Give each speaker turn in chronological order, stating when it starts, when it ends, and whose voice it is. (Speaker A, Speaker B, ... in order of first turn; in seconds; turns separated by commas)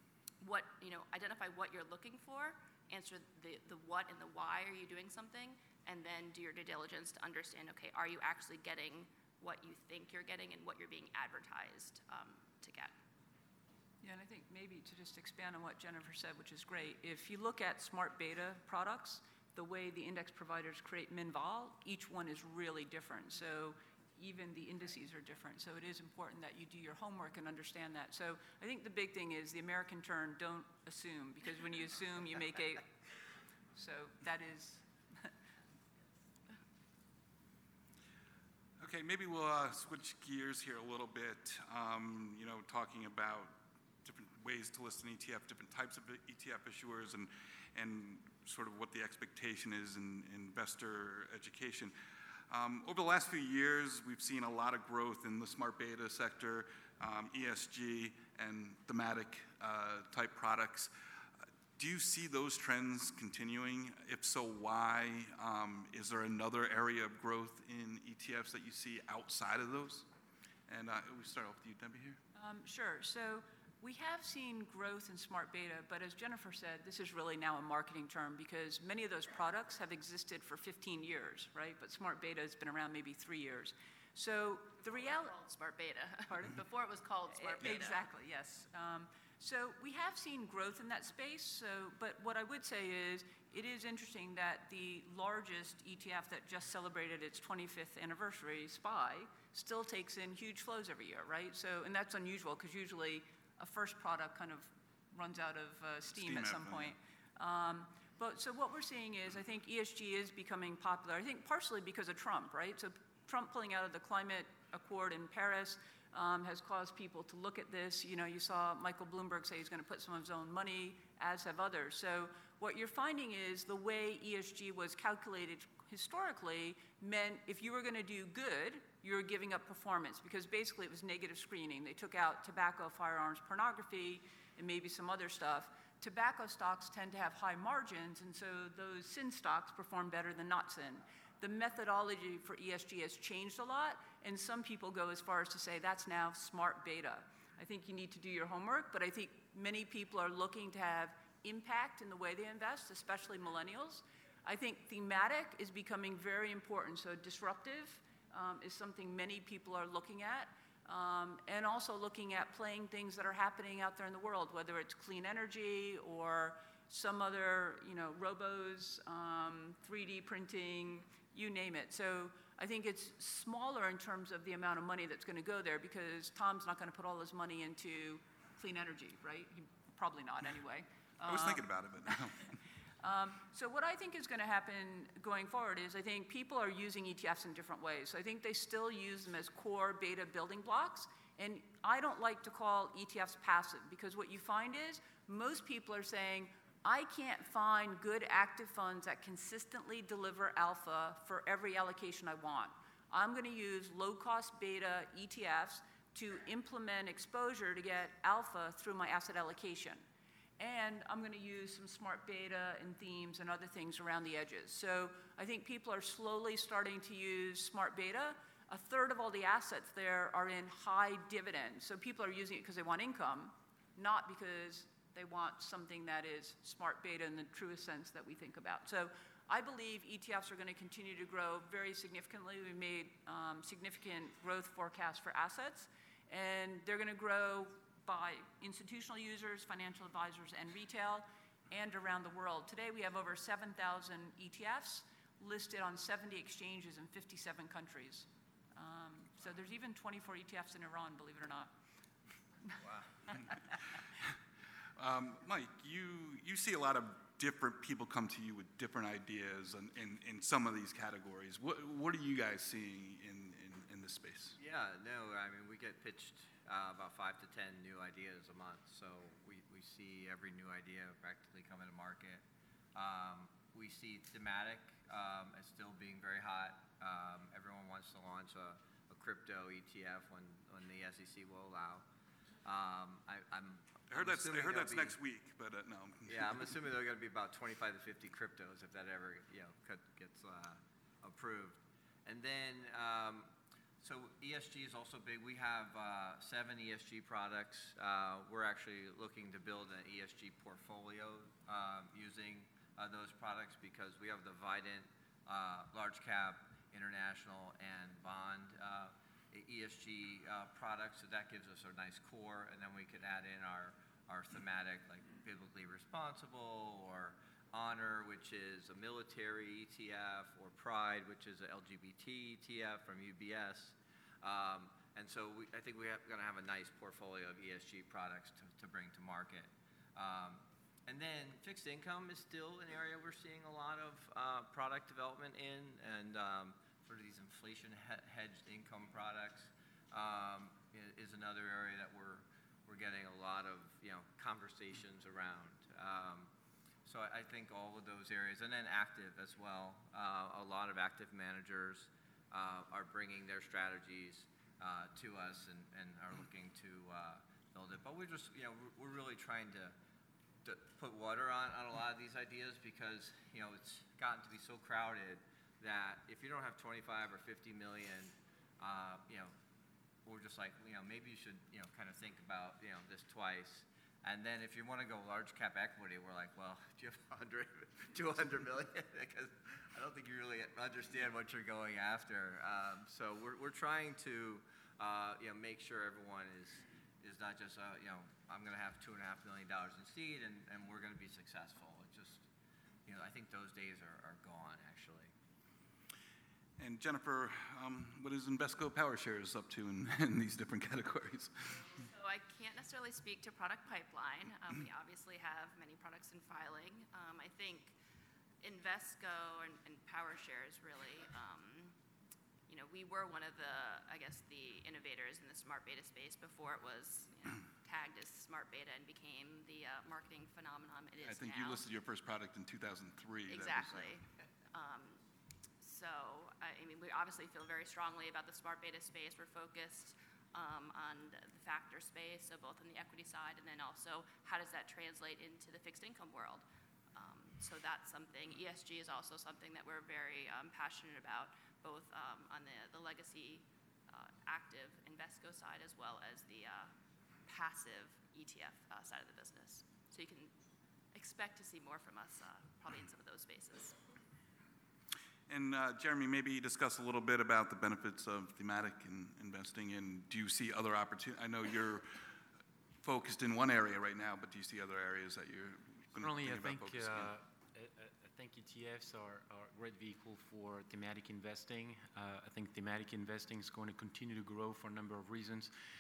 Speaker A: 0.4-12.9, Speaker B: 14.0-32.9, Speaker B: 33.8-35.3, Speaker C: 38.8-51.9, Speaker C: 52.5-60.9, Speaker C: 61.8-70.1, Speaker C: 70.7-72.2, Speaker B: 72.4-85.3, Speaker A: 84.8-88.0, Speaker B: 87.3-182.2, Speaker C: 106.1-107.0, Speaker C: 181.2-182.5, Speaker B: 183.0-210.0, Speaker B: 210.6-251.7, Speaker C: 255.0-264.6, Speaker D: 264.6-272.4, Speaker D: 272.9-282.0, Speaker D: 282.6-285.2, Speaker C: 284.1-286.8, Speaker D: 286.3-293.5, Speaker D: 294.0-346.5, Speaker D: 347.1-359.9, Speaker D: 360.6-369.5, Speaker D: 370.2-392.4, Speaker D: 393.1-395.3, Speaker C: 396.8-401.9, Speaker A: 401.9-407.9, Speaker A: 408.6-411.9, Speaker A: 412.7-421.9, Speaker C: 421.2-424.2, Speaker A: 423.5-425.2, Speaker A: 425.8-436.6, Speaker A: 437.1-446.9, Speaker A: 447.5-450.5, Speaker A: 451.1-454.0, Speaker C: 455.5-462.2, Speaker C: 463.0-467.3, Speaker E: 466.2-475.7